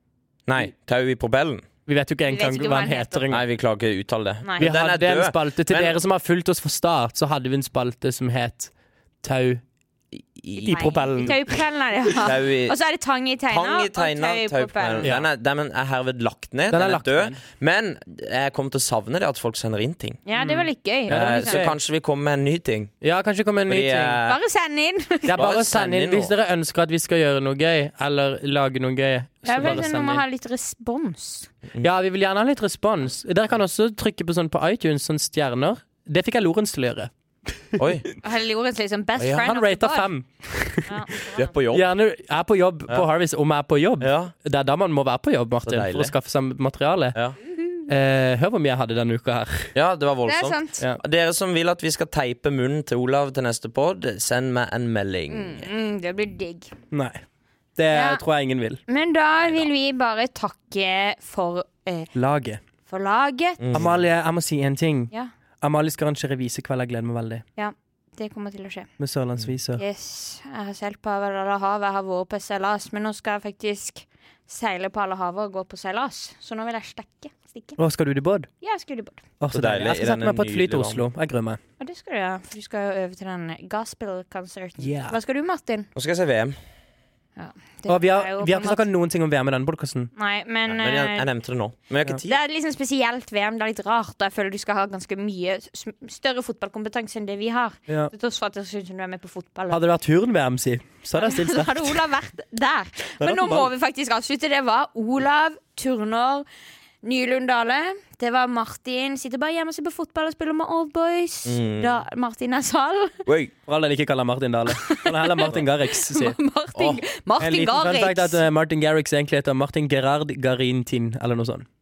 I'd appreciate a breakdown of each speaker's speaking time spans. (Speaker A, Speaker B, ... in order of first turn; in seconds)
Speaker A: 0.5-1.6, 3.3-6.0, 10.3-10.8, 12.2-12.8, 13.5-20.2, 21.1-22.9, 23.7-24.4, 25.3-26.3, 37.8-38.1, 39.2-39.5, 41.4-41.9, 44.0-44.3, 45.6-46.1, 49.7-55.7, 63.6-64.0, 79.5-81.0, 85.9-86.5, 90.7-92.3, 111.5-112.0, 113.2-113.5, 116.7-117.0
Speaker B: 1.9-3.4, 4.6-8.7, 9.2-9.6, 10.6-11.6, 15.0-15.3, 16.7-17.4, 20.4-21.7, 23.0-24.2, 25.2-30.2, 31.8-37.1, 39.4-41.0, 41.7-47.1, 47.9-49.7, 56.9-57.2, 57.8-58.8, 62.1-62.6, 63.7-65.1, 65.6-67.4, 69.0-69.8, 77.8-78.5, 79.4-81.6, 84.8-85.2, 87.9-90.1, 99.7-102.0, 103.2-103.7, 113.7-116.4, 117.4-121.7
Speaker C: 2.2-3.3, 4.4-4.7, 10.5-15.1, 20.2-21.7, 24.2-25.4, 29.4-31.5, 38.2-40.1, 40.9-41.5, 50.2-50.8, 55.3-56.7, 57.9-58.2, 58.9-62.1, 62.9-63.7, 67.6-68.9, 69.8-77.8, 78.6-79.2, 81.8-85.9, 87.4-88.9, 90.2-91.2, 92.2-99.8, 101.2-106.5, 107.0-113.2, 114.7-118.4